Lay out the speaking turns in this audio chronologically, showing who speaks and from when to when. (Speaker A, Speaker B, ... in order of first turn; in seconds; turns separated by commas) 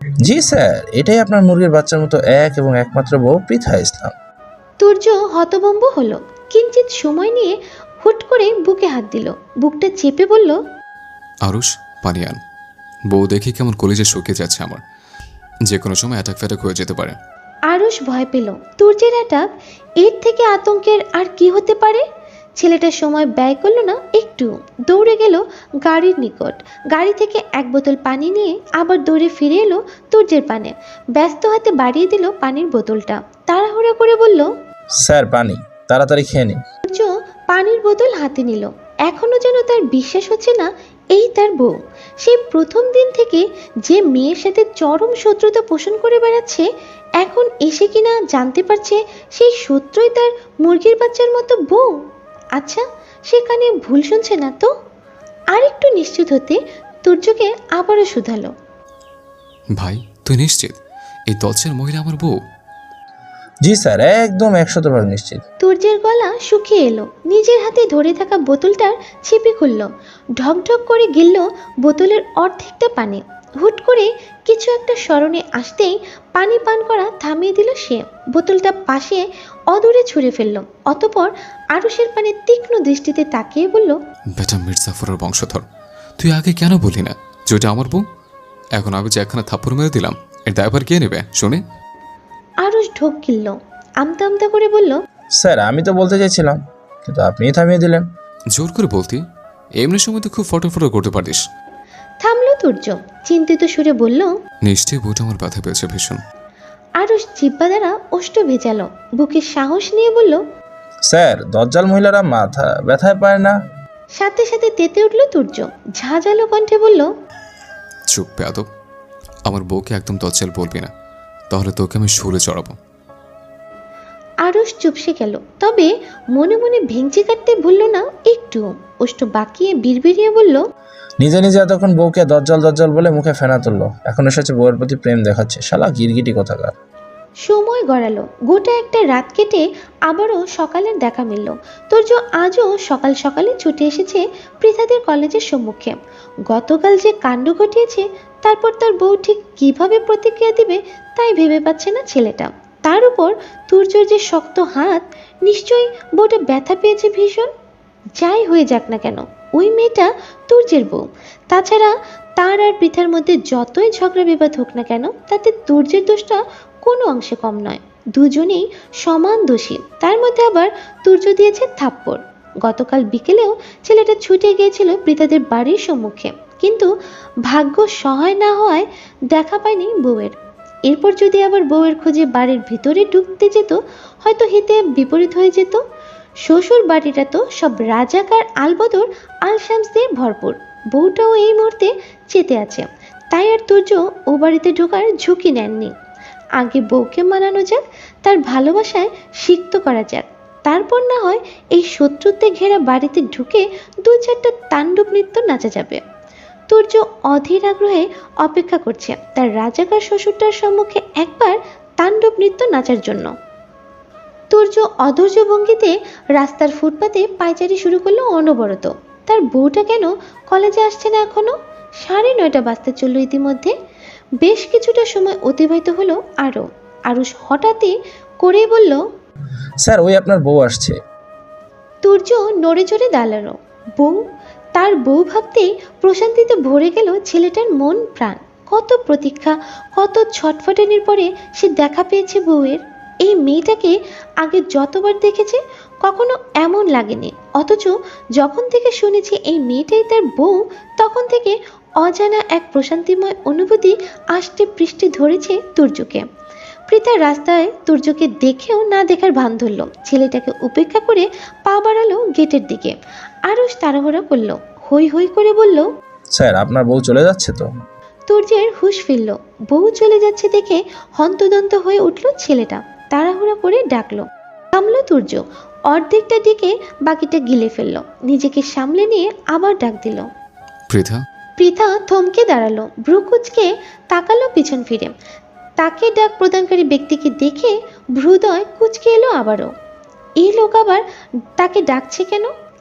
Speaker A: 0.2-4.1, Speaker B: 4.8-10.6, Speaker C: 11.4-12.4, Speaker C: 13.1-14.8, Speaker C: 15.7-17.2, Speaker B: 17.7-19.5, Speaker B: 20.0-22.0, Speaker B: 22.6-34.5, Speaker A: 35.0-36.6, Speaker B: 36.9-46.7, Speaker B: 47.2-52.0, Speaker B: 52.6-54.7, Speaker B: 55.5-58.5, Speaker C: 59.8-60.8, Speaker C: 61.3-62.4, Speaker A: 63.6-65.4, Speaker B: 65.6-84.0, Speaker C: 84.4-85.7, Speaker C: 86.2-88.0, Speaker C: 88.8-91.6, Speaker B: 92.6-95.0, Speaker A: 95.4-98.1, Speaker C: 98.5-99.2, Speaker C: 99.8-101.4, Speaker B: 102.2-104.3, Speaker C: 104.6-106.2, Speaker B: 107.0-110.4, Speaker A: 111.1-113.6, Speaker B: 114.2-117.1, Speaker C: 118.1-118.7, Speaker C: 119.5-120.9, Speaker C: 121.5-122.8, Speaker B: 124.4-130.6, Speaker A: 131.2-136.7, Speaker B: 137.4-145.9, Speaker B: 146.5-157.5, Speaker B: 158.2-176.9, Speaker B: 177.5-180.3, Speaker B: 180.9-185.8, Speaker B: 186.4-195.9, Speaker B: 196.6-206.0, Speaker B: 206.7-213.3, Speaker B: 214.5-223.7, Speaker B: 224.4-229.0, Speaker A: 229.8-231.0, Speaker B: 232.0-234.2, Speaker B: 234.7-256.2, Speaker B: 256.9-262.9, Speaker B: 263.5-265.9, Speaker A: 266.4-267.7, Speaker B: 268.3-280.3, Speaker C: 280.9-281.2, Speaker B: 281.6-285.1, Speaker B: 285.8-289.7, Speaker B: 290.4-291.0, Speaker B: 291.6-292.5